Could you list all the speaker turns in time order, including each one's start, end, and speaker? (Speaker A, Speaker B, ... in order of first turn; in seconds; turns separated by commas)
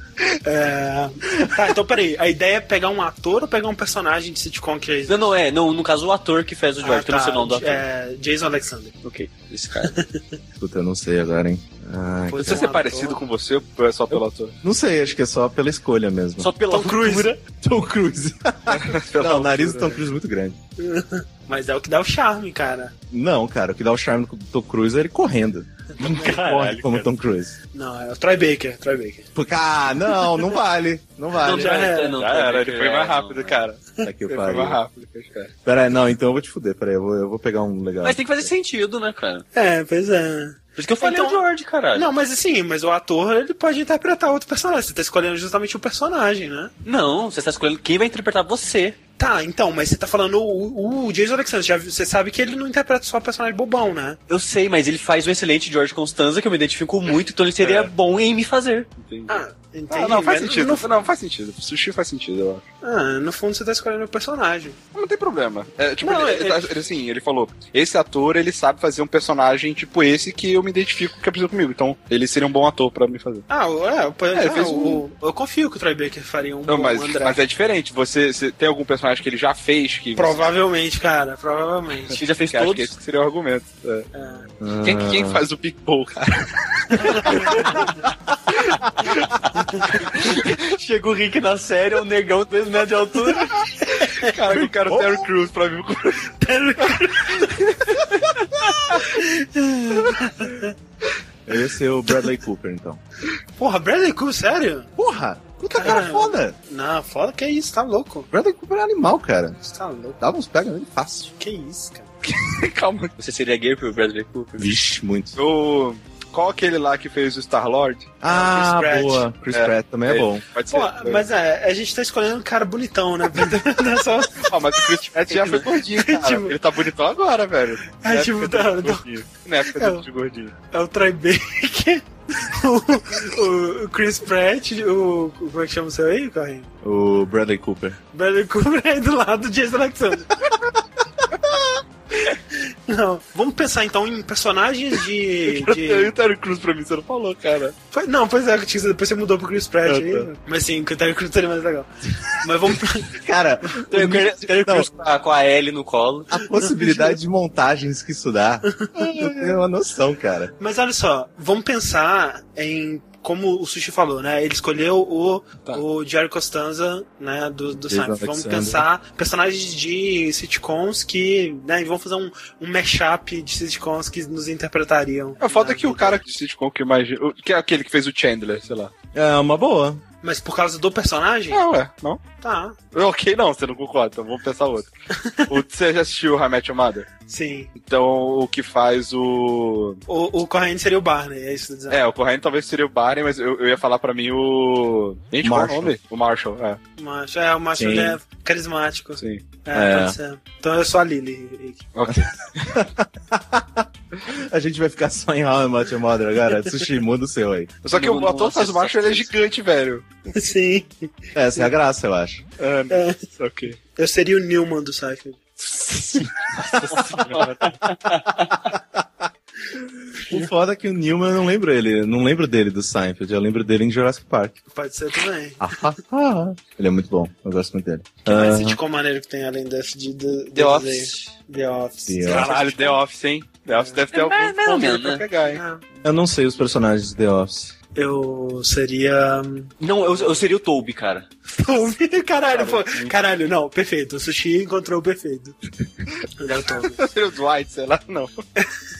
Speaker A: 0.4-5.2, Speaker B: 5.1-7.8, Speaker A: 6.8-8.9, Speaker B: 9.0-9.9, Speaker A: 9.8-10.4, Speaker C: 10.6-12.7, Speaker A: 12.3-13.2, Speaker D: 12.4-14.5, Speaker C: 14.1-16.5, Speaker B: 16.4-17.4, Speaker A: 16.7-17.4, Speaker C: 17.6-20.6, Speaker D: 18.7-20.0, Speaker A: 20.8-22.9, Speaker C: 23.1-27.6, Speaker A: 26.0-26.3, Speaker B: 26.1-27.1, Speaker A: 27.7-29.3, Speaker C: 29.3-31.9, Speaker A: 30.1-30.5, Speaker A: 31.4-32.2, Speaker B: 31.4-33.6, Speaker D: 32.2-35.5, Speaker C: 34.0-34.8, Speaker C: 35.6-38.5, Speaker B: 38.0-39.5, Speaker A: 39.5-41.4, Speaker B: 40.8-42.1, Speaker A: 41.9-46.7, Speaker B: 46.8-49.0, Speaker A: 49.2-54.2, Speaker B: 54.3-58.9, Speaker D: 57.6-57.9, Speaker D: 59.0-59.3, Speaker A: 59.3-60.9, Speaker D: 59.9-62.6, Speaker A: 62.8-64.8, Speaker D: 64.9-73.5, Speaker A: 66.0-66.8, Speaker A: 73.5-77.4, Speaker D: 74.3-75.0, Speaker D: 76.7-80.4, Speaker A: 80.2-82.2, Speaker B: 82.1-82.9, Speaker D: 82.5-84.1, Speaker A: 84.1-84.5, Speaker C: 84.6-85.4, Speaker D: 84.8-87.8, Speaker A: 86.9-87.9, Speaker C: 87.5-87.9, Speaker C: 88.6-89.2, Speaker A: 89.5-90.0, Speaker B: 90.0-93.7, Speaker A: 93.4-94.7, Speaker D: 94.1-96.3, Speaker C: 94.9-95.2, Speaker A: 96.4-98.3, Speaker A: 98.9-100.7, Speaker C: 101.5-103.0, Speaker A: 103.6-104.9, Speaker C: 105.0-106.5, Speaker A: 105.7-108.3, Speaker C: 108.3-109.7, Speaker A: 109.6-110.2, Speaker C: 110.2-111.3, Speaker A: 111.4-112.1, Speaker D: 112.2-113.1, Speaker B: 113.2-114.7, Speaker C: 114.6-115.4, Speaker D: 115.3-118.1, Speaker C: 118.2-120.4, Speaker A: 118.3-119.3, Speaker D: 119.5-121.2, Speaker A: 120.7-126.6, Speaker D: 124.4-130.5, Speaker A: 128.0-129.0, Speaker A: 129.7-130.0, Speaker A: 130.7-136.7, Speaker C: 136.8-138.0, Speaker A: 138.1-140.5, Speaker A: 142.2-146.1, Speaker D: 145.4-147.7, Speaker A: 147.9-153.2, Speaker D: 149.8-150.3, Speaker C: 153.1-154.9, Speaker B: 153.8-156.3, Speaker C: 156.3-160.5, Speaker A: 156.4-157.2, Speaker A: 158.8-159.4, Speaker A: 160.6-176.2, Speaker C: 167.8-168.9, Speaker D: 175.4-178.9, Speaker C: 179.1-180.0, Speaker A: 180.2-181.6, Speaker D: 181.5-182.2, Speaker A: 182.4-182.8, Speaker D: 182.9-184.9, Speaker A: 185.2-185.5, Speaker D: 185.5-187.1, Speaker A: 187.3-187.7, Speaker D: 187.8-190.0, Speaker A: 190.1-192.0, Speaker D: 191.9-196.8, Speaker C: 195.4-195.9, Speaker A: 197.0-201.9, Speaker C: 197.8-198.2, Speaker D: 199.2-199.4, Speaker C: 199.7-200.2, Speaker D: 201.9-202.3, Speaker C: 202.1-207.7, Speaker D: 207.8-210.0, Speaker B: 207.9-209.3, Speaker A: 210.3-211.7, Speaker C: 211.3-212.4, Speaker D: 212.6-213.8, Speaker A: 212.9-213.2, Speaker A: 213.9-217.2, Speaker D: 216.6-217.8, Speaker B: 217.7-218.6, Speaker C: 220.3-224.6, Speaker A: 224.7-225.6, Speaker C: 225.6-228.8, Speaker A: 228.2-233.0, Speaker B: 230.5-231.3, Speaker C: 232.1-232.5, Speaker D: 232.2-235.6, Speaker A: 233.7-234.0, Speaker B: 234.1-235.2, Speaker A: 235.4-235.8, Speaker C: 236.0-237.7, Speaker A: 237.9-239.7, Speaker B: 239.8-241.2, Speaker A: 241.5-245.6, Speaker B: 242.5-243.1, Speaker A: 246.4-247.0, Speaker D: 246.8-248.4